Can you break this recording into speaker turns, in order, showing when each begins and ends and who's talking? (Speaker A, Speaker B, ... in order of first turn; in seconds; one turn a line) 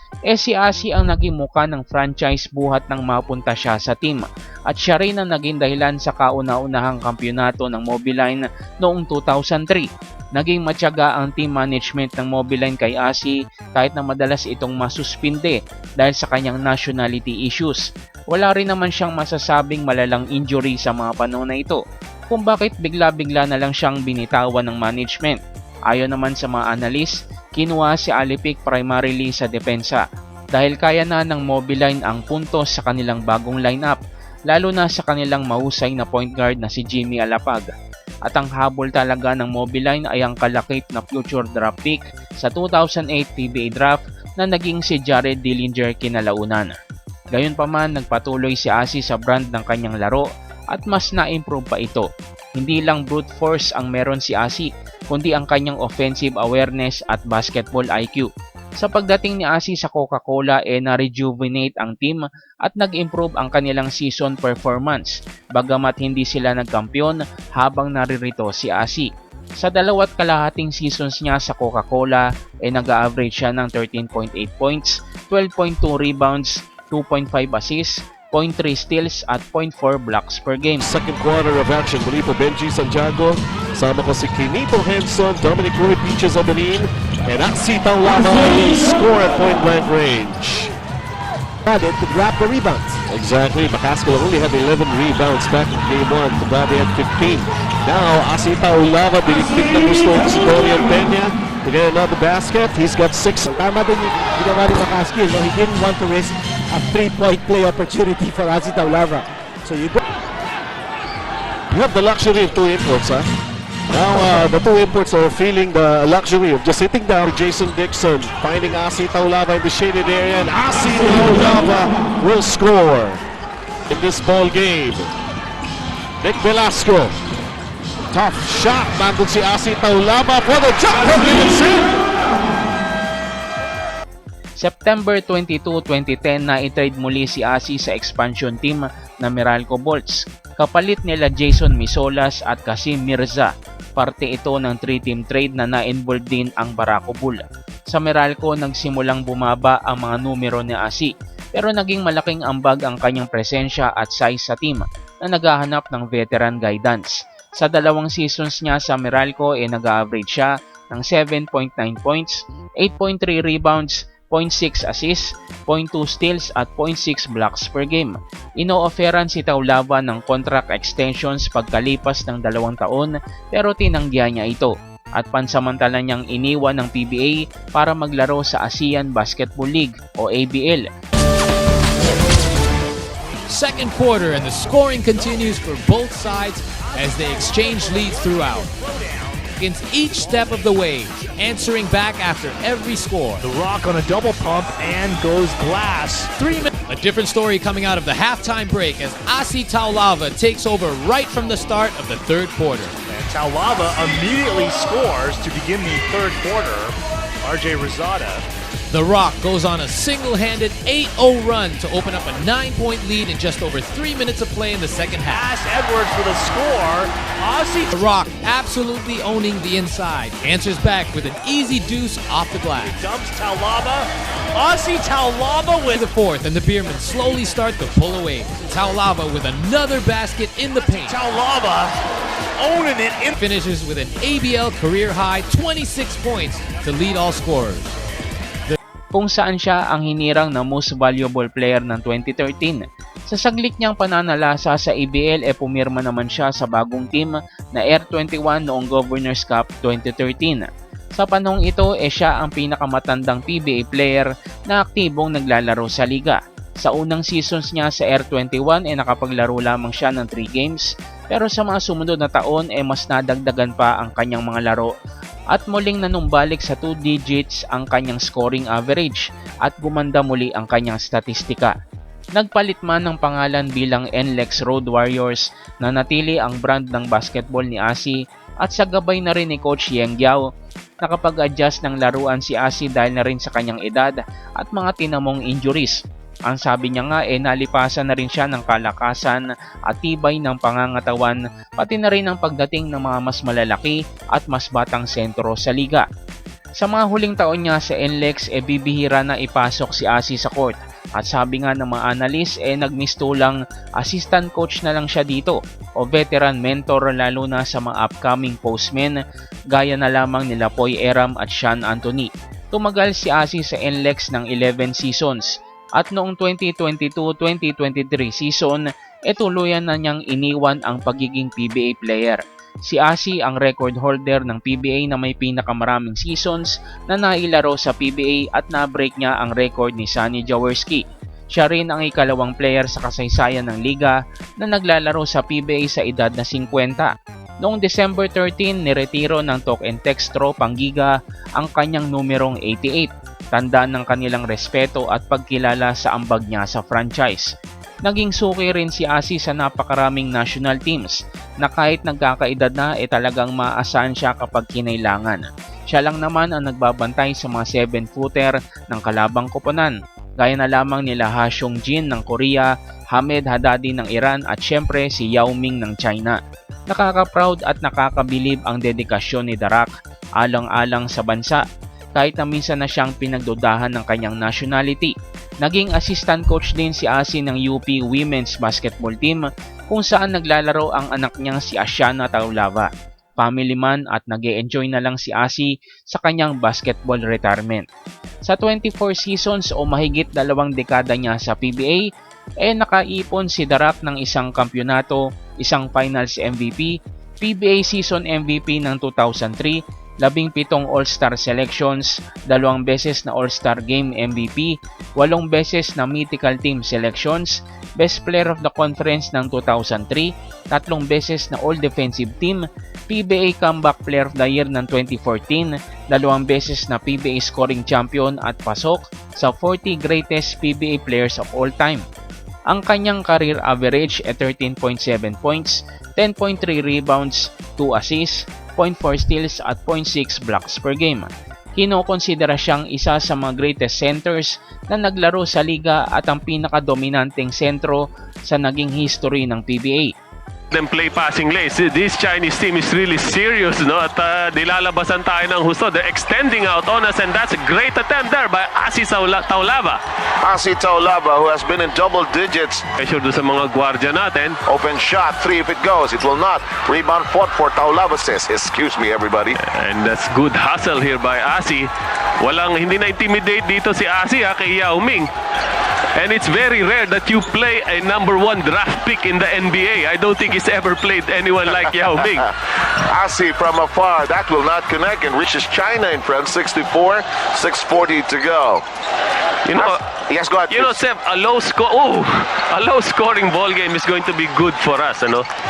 Speaker A: 0.3-37.7
Speaker A: 38.3-46.7
Speaker A: 47.3-80.9
Speaker B: 80.8-90.7
Speaker B: 91.7-103.6
Speaker C: 103.5-110.0
Speaker B: 111.7-113.2
Speaker B: 113.9-123.2
Speaker B: 123.9-125.1
Speaker B: 126.2-127.1
Speaker B: 128.1-131.9
Speaker A: 134.6-180.9
Speaker D: 183.5-188.7
Speaker E: 187.2-189.4
Speaker D: 189.6-193.4
Speaker E: 193.4-196.7
Speaker D: 196.4-202.9
Speaker E: 203.1-208.4
Speaker D: 208.9-215.5
Speaker E: 215.3-218.0
Speaker D: 217.9-223.0
Speaker E: 222.8-226.1
Speaker D: 225.9-231.2
Speaker E: 231.0-231.9
Speaker E: 232.6-233.3
Speaker D: 233.3-237.9
Speaker A: 239.1-264.9
Speaker A: 265.5-271.8
Speaker A: 272.4-280.4
Speaker A: 281.0-296.1
Speaker A: 296.8-309.2
Speaker A: 309.7-347.5
Speaker A: 348.1-371.6
Speaker A: 372.2-387.9
Speaker A: 388.5-392.0
Speaker A: 392.6-422.1
Speaker A: 422.7-440.1
Speaker F: 440.7-450.0
Speaker G: 450.4-452.9
Speaker F: 453.0-454.6
Speaker G: 454.7-459.6
Speaker F: 459.7-461.9
Speaker F: 462.4-465.3
Speaker F: 466.2-472.5
Speaker G: 473.1-478.8
Speaker F: 479.7-480.0
Speaker G: 479.8-481.0
Speaker F: 480.7-485.5